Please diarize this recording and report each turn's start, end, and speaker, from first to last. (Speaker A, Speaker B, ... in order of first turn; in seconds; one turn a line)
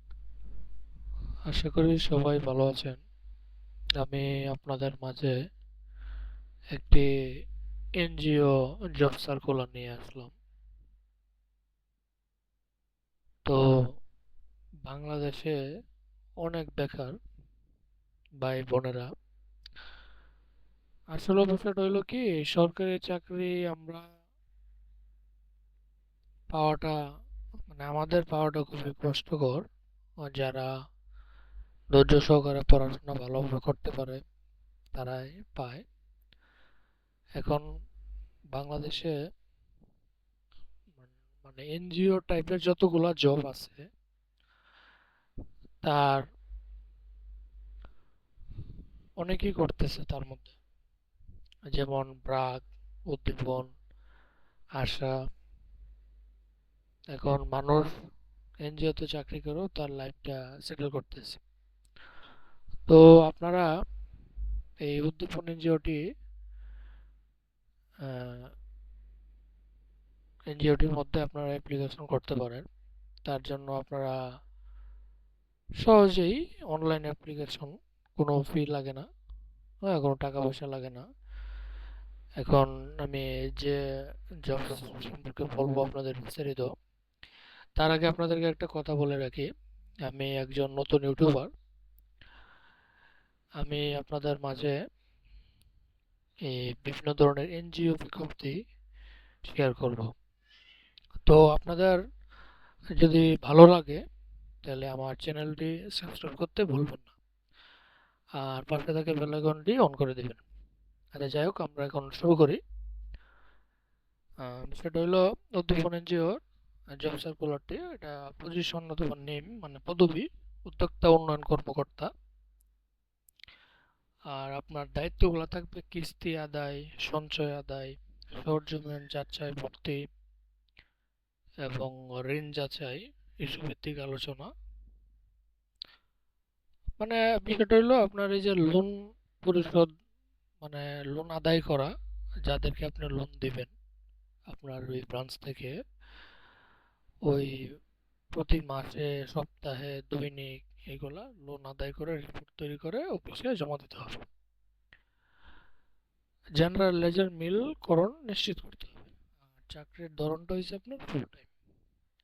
Speaker A: 1.5-3.0
Speaker A: 4.0-5.3
Speaker A: 6.7-7.1
Speaker A: 8.0-10.3
Speaker A: 14.9-15.6
Speaker A: 16.4-17.2
Speaker A: 18.4-19.1
Speaker A: 21.1-24.0
Speaker A: 26.5-26.9
Speaker A: 27.7-29.6
Speaker A: 30.2-30.7
Speaker A: 31.9-34.2
Speaker A: 35.0-35.8
Speaker A: 37.4-37.6
Speaker A: 38.5-39.1
Speaker A: 41.0-43.8
Speaker A: 45.8-46.2
Speaker A: 49.2-50.5
Speaker A: 51.7-53.7
Speaker A: 54.8-55.1
Speaker A: 57.1-57.9
Speaker A: 58.6-61.4
Speaker A: 62.9-63.7
Speaker A: 64.8-66.0
Speaker A: 68.0-68.5
Speaker A: 70.5-72.6
Speaker A: 73.2-74.2
Speaker A: 75.8-79.1
Speaker A: 79.9-81.0
Speaker A: 82.4-83.8
Speaker A: 84.5-86.7
Speaker A: 87.8-89.5
Speaker A: 90.1-91.5
Speaker A: 93.6-94.7
Speaker A: 96.5-98.5
Speaker A: 99.5-100.1
Speaker A: 101.2-102.0
Speaker A: 103.0-104.0
Speaker A: 104.7-107.1
Speaker A: 108.4-110.4
Speaker A: 111.1-112.6
Speaker A: 114.4-116.3
Speaker A: 116.9-122.1
Speaker A: 124.3-130.0
Speaker A: 131.7-134.5
Speaker A: 137.0-139.9
Speaker A: 140.6-141.9
Speaker A: 142.5-143.7
Speaker A: 144.5-145.7
Speaker A: 147.3-147.6
Speaker A: 148.3-154.2
Speaker A: 156.6-159.1
Speaker A: 159.7-161.5